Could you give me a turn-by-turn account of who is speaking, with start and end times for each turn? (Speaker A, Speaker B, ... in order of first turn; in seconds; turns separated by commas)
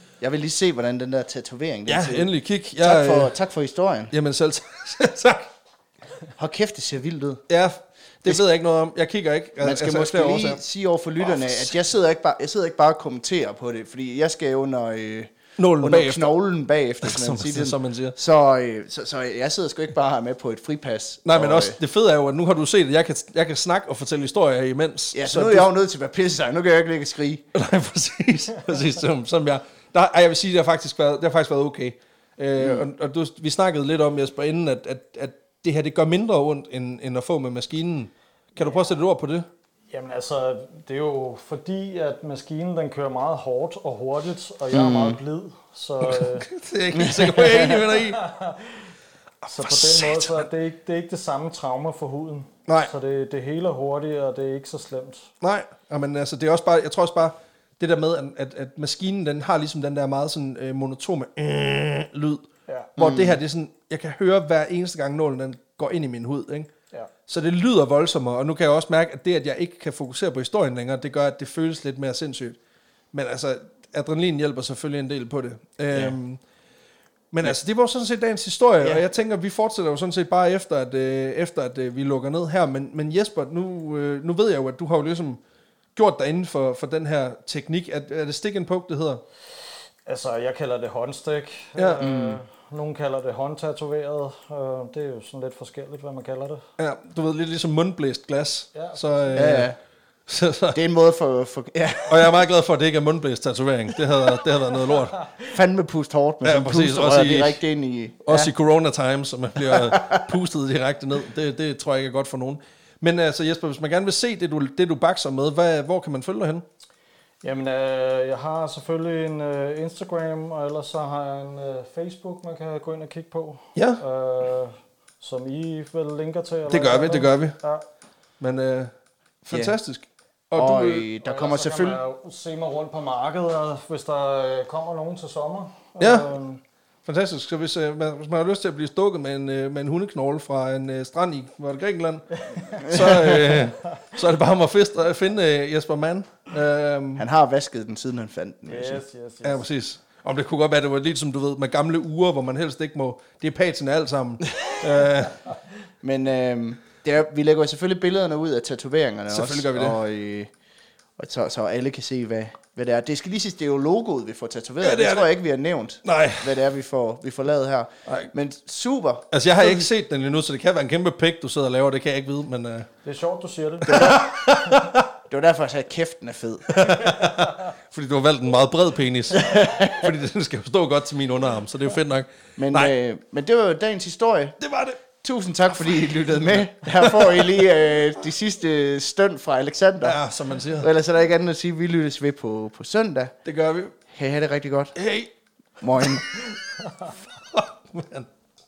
Speaker A: 0.2-4.1, Speaker B: 1.9-3.4, Speaker B: 4.1-5.5, Speaker A: 6.4-7.4, Speaker B: 7.5-10.6, Speaker A: 9.6-21.8, Speaker B: 11.3-11.8, Speaker B: 15.6-16.3, Speaker B: 17.0-18.2, Speaker B: 21.3-25.7, Speaker A: 25.1-27.5, Speaker B: 27.5-39.5, Speaker A: 32.6-32.9, Speaker C: 39.9-46.5, Speaker A: 44.7-45.2, Speaker B: 46.1-48.2, Speaker A: 46.9-47.4, Speaker C: 47.4-48.8, Speaker C: 49.5-55.3, Speaker A: 49.6-50.1, Speaker B: 50.0-50.4, Speaker B: 55.4-62.5, Speaker C: 62.7-62.9, Speaker A: 63.0-63.4, Speaker B: 63.0-66.7, Speaker B: 67.3-72.6, Speaker B: 73.1-76.4, Speaker B: 77.3-85.4, Speaker B: 86.0-89.2, Speaker C: 90.1-96.7, Speaker B: 91.8-92.1, Speaker A: 92.0-92.4, Speaker B: 96.8-99.7, Speaker C: 98.8-99.4, Speaker A: 99.3-99.8, Speaker B: 100.3-100.8, Speaker A: 100.7-102.4, Speaker B: 102.1-105.2, Speaker A: 105.5-108.5, Speaker B: 106.4-107.6, Speaker B: 108.3-116.7, Speaker A: 109.6-110.3, Speaker C: 117.4-127.8, Speaker B: 123.8-124.0, Speaker B: 126.7-127.6, Speaker B: 128.4-128.9, Speaker B: 129.4-131.1, Speaker A: 130.6-132.0, Speaker C: 131.2-136.6, Speaker B: 136.0-136.3, Speaker B: 137.1-147.2, Speaker A: 142.8-143.4, Speaker A: 147.2-149.0, Speaker C: 148.7-149.6, Speaker B: 149.4-155.4, Speaker A: 156.0-160.5, Speaker B: 159.3-160.0, Speaker A: 161.2-169.9, Speaker B: 164.8-165.3, Speaker B: 166.1-166.6, Speaker B: 169.3-172.9, Speaker C: 173.0-174.4, Speaker A: 173.9-174.3, Speaker B: 173.9-175.0, Speaker A: 175.3-176.8, Speaker B: 176.7-182.9, Speaker A: 179.3-180.1, Speaker A: 182.6-184.6, Speaker B: 184.6-185.0, Speaker A: 185.2-190.2, Speaker B: 186.1-187.5, Speaker B: 190.0-190.9, Speaker A: 190.8-193.3, Speaker B: 193.4-194.0, Speaker A: 194.1-194.9, Speaker B: 195.0-195.3, Speaker A: 195.8-196.2, Speaker B: 196.0-198.3